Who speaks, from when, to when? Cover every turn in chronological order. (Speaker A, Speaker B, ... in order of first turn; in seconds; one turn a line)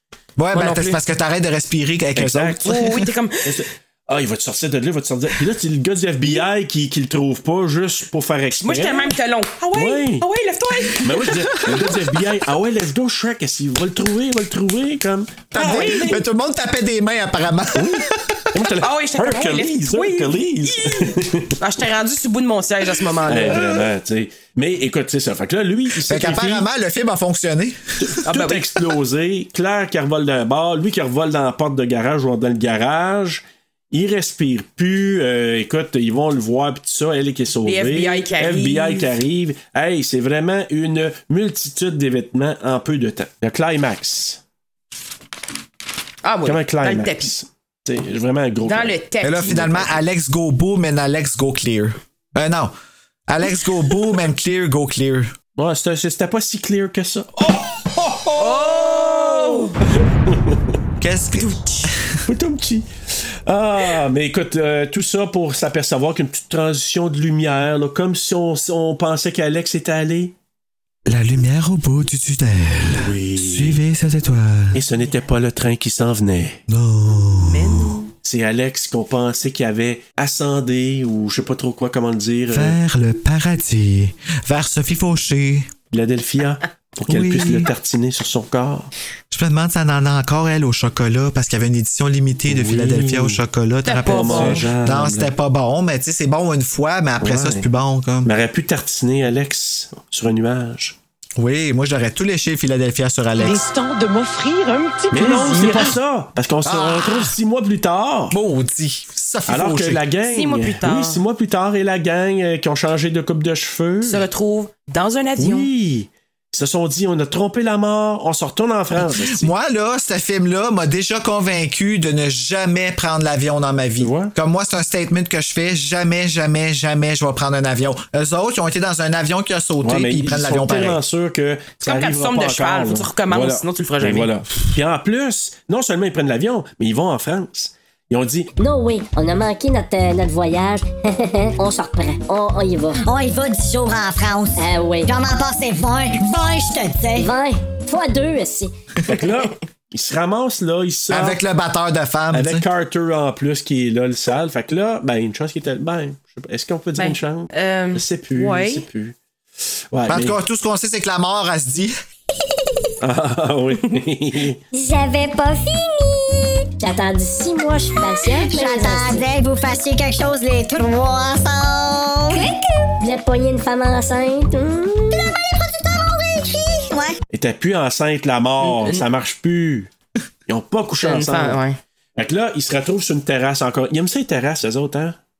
Speaker A: 0.4-3.0
Speaker B: 0.5-1.0
Speaker C: 2.2-2.9
Speaker B: 2.6-3.5
Speaker C: 3.4-9.1
Speaker B: 8.6-11.6
Speaker C: 9.7-10.3
Speaker C: 11.0-16.1
Speaker A: 11.7-11.9
Speaker B: 15.5-16.2
Speaker A: 15.6-18.5
Speaker C: 17.8-21.5
Speaker B: 18.8-23.6
Speaker C: 23.3-26.7
Speaker A: 26.0-28.1
Speaker C: 28.0-44.4
Speaker B: 28.2-28.6
Speaker B: 37.6-39.1
Speaker B: 46.2-47.3
Speaker C: 46.5-48.9
Speaker B: 48.7-49.8
Speaker A: 49.2-52.8
Speaker C: 49.5-49.8
Speaker A: 53.3-55.3
Speaker C: 55.6-60.8
Speaker B: 58.4-59.8
Speaker A: 61.0-62.2
Speaker B: 61.4-61.9
Speaker C: 62.3-70.3
Speaker A: 71.1-74.8
Speaker C: 72.9-73.8
Speaker C: 74.7-76.6
Speaker A: 76.7-78.0
Speaker B: 77.4-78.1
Speaker C: 78.2-82.8
Speaker A: 82.5-85.7
Speaker C: 85.9-88.9
Speaker A: 87.1-87.7
Speaker A: 89.3-98.3
Speaker C: 92.5-93.4
Speaker B: 93.8-94.7
Speaker C: 94.0-95.3
Speaker C: 97.2-97.7
Speaker C: 98.2-101.0
Speaker A: 101.4-103.7
Speaker D: 103.4-106.0
Speaker C: 105.1-108.4
Speaker A: 106.7-107.4
Speaker A: 108.3-110.0
Speaker C: 109.5-114.3
Speaker B: 110.3-111.2
Speaker B: 114.0-115.7
Speaker C: 115.4-119.5
Speaker A: 119.0-131.0
Speaker C: 124.0-124.3
Speaker C: 129.8-138.5
Speaker B: 131.8-134.3
Speaker E: 138.6-143.0
Speaker F: 143.1-147.3
Speaker E: 144.6-145.1
Speaker E: 147.2-148.7
Speaker C: 149.1-151.4
Speaker A: 151.1-152.7
Speaker C: 152.3-160.4
Speaker B: 157.0-158.8
Speaker A: 160.1-162.0
Speaker C: 163.0-164.6
Speaker F: 164.7-166.5
Speaker E: 166.8-169.3
Speaker F: 168.1-172.6
Speaker E: 173.0-175.3
Speaker F: 175.2-177.2
Speaker C: 177.3-179.9
Speaker B: 178.6-179.1
Speaker C: 180.5-181.6
Speaker B: 181.0-181.8
Speaker C: 182.2-185.2